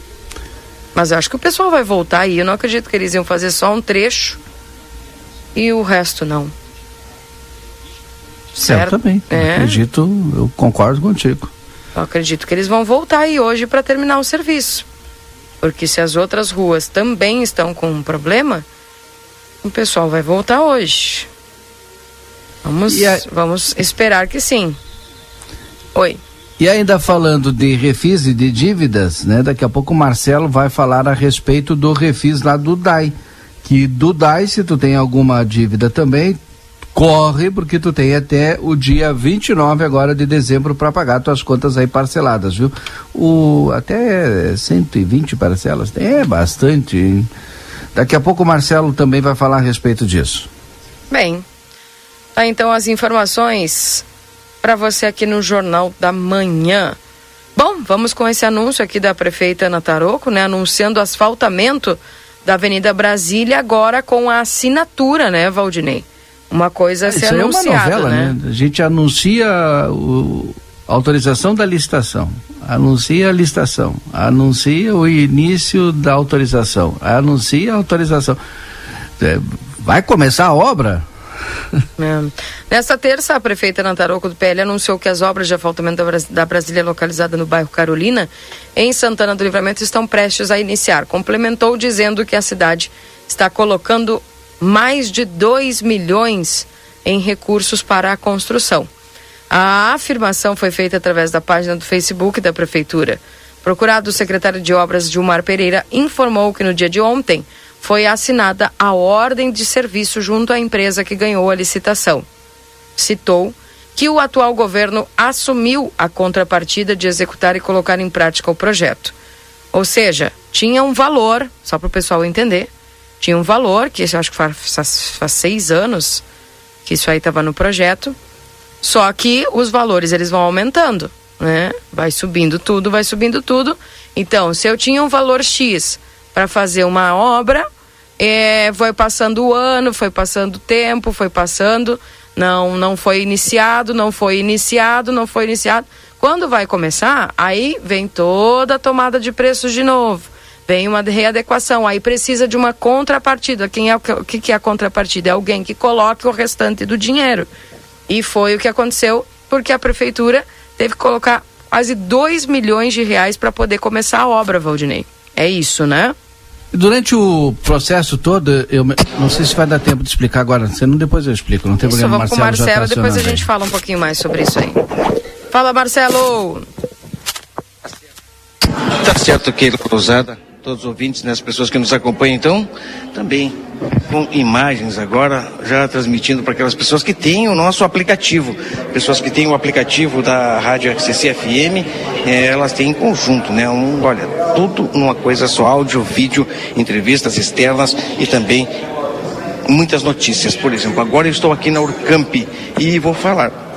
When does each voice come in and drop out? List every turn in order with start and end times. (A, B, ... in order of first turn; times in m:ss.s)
0:01.0-0:04.4 A
0:05.6-0:06.5 A
0:08.5-0:09.8 A
0:08.6-0:11.5 B
0:12.0-0:14.8 A
0:15.6-0:18.6 A
0:19.6-0:21.3 A
0:22.6-0:24.8 A
0:22.9-0:23.2 B
0:26.0-0:26.2 A
0:26.6-0:36.4 B
0:37.0-0:47.3 B
0:48.0-0:50.5 B
0:51.1-0:51.4 A
0:52.4-0:54.0 A
0:54.6-0:57.0 A
0:57.6-1:08.3 A
1:07.1-1:18.4 B
1:19.2-1:21.1 B
1:22.0-1:38.9 A
1:39.5-1:52.2 A
1:53.0-1:59.1 A
1:59.7-2:02.7 A
2:03.2-2:06.2 A
2:06.8-2:08.2 A
2:08.8-2:17.7 A
2:18.2-2:37.5 A
2:38.1-2:46.2 A
2:46.7-2:53.4 B
2:51.8-2:54.8 A
2:55.5-2:56.6 A
2:59.0-3:03.6 C
3:04.1-3:18.7 C
3:19.7-3:23.5 C